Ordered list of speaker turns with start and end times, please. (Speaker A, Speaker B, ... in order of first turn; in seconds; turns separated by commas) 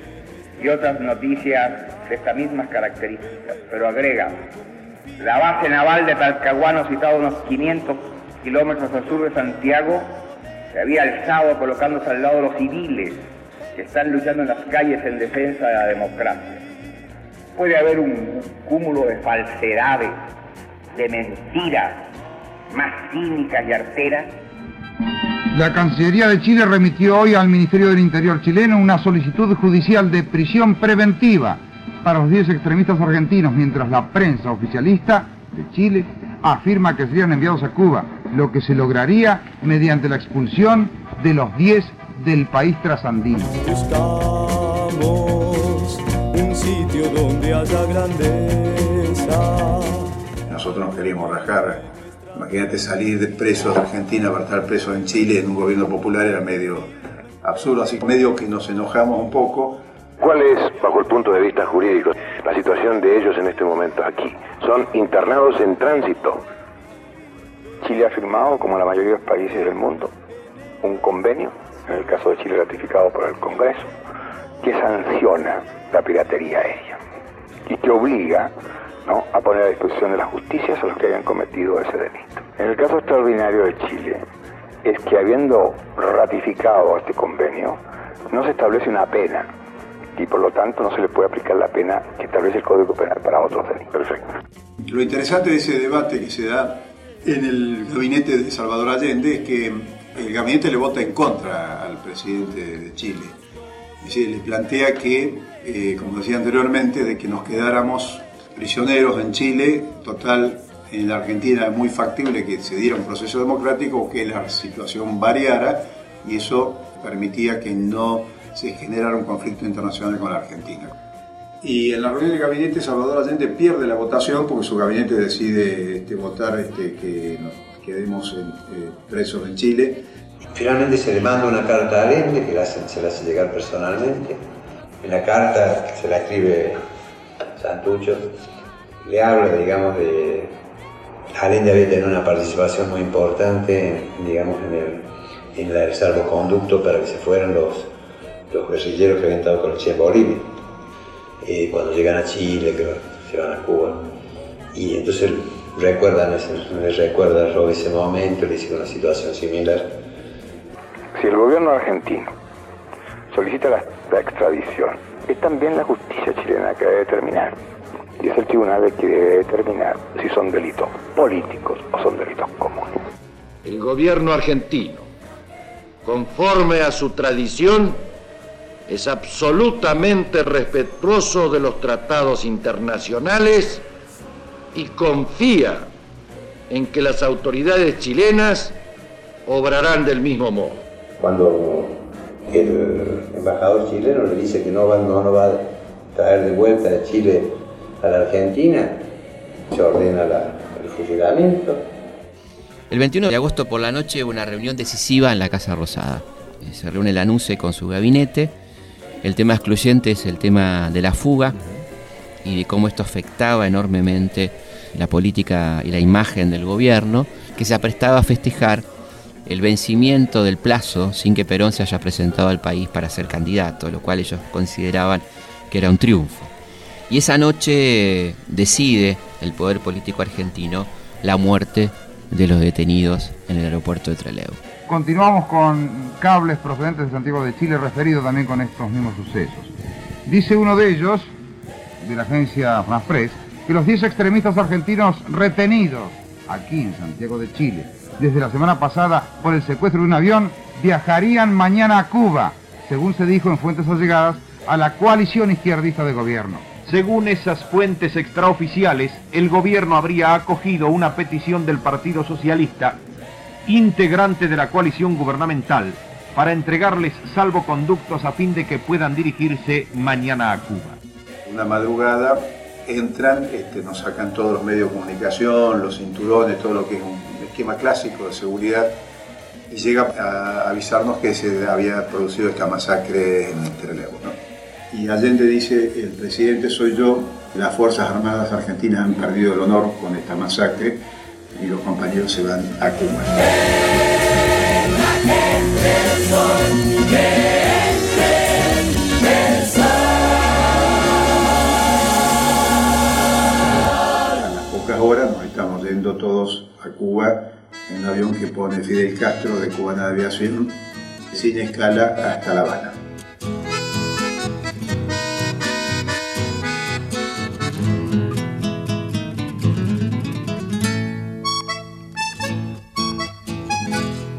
Speaker A: 0.6-4.4, Speaker A: 5.2-10.2, Speaker A: 10.7-16.6, Speaker A: 17.5-20.2, Speaker A: 20.9-22.1, Speaker A: 22.7-24.3, Speaker B: 25.5-43.5, Speaker C: 43.6-50.1, Speaker D: 50.5-51.8, Speaker D: 52.3-56.9, Speaker D: 57.4-59.8, Speaker E: 60.2-66.4, Speaker F: 67.8-70.1, Speaker F: 70.8-73.9, Speaker F: 74.6-77.0, Speaker F: 77.7-78.5, Speaker F: 79.0-84.2, Speaker F: 84.8-87.8, Speaker F: 88.3-89.5, Speaker F: 90.2-94.2, Speaker D: 94.8-103.3, Speaker D: 104.0-120.9, Speaker D: 121.6-130.0, Speaker G: 130.5-134.4, Speaker G: 135.0-136.8, Speaker G: 137.6-138.3, Speaker G: 139.0-140.5, Speaker G: 141.3-147.9, Speaker G: 148.5-150.5, Speaker G: 151.4-154.1, Speaker G: 154.7-159.9, Speaker F: 161.2-162.3, Speaker F: 163.3-167.5, Speaker F: 168.2-172.9, Speaker H: 173.6-175.1, Speaker H: 176.0-178.0, Speaker H: 178.9-183.8, Speaker H: 184.7-185.9, Speaker H: 186.7-188.8, Speaker H: 189.4-190.8, Speaker G: 191.2-199.0, Speaker G: 199.7-201.9, Speaker I: 202.9-208.5, Speaker I: 209.2-211.6, Speaker I: 212.4-218.8, Speaker I: 219.4-226.5, Speaker I: 227.1-234.6, Speaker B: 234.9-239.7, Speaker B: 240.2-241.3, Speaker B: 242.0-256.7, Speaker J: 256.9-263.0, Speaker J: 263.6-271.0, Speaker D: 271.4-279.0, Speaker D: 279.7-284.4, Speaker D: 284.9-291.0, Speaker D: 291.5-293.8, Speaker D: 304.3-310.8, Speaker D: 311.3-312.9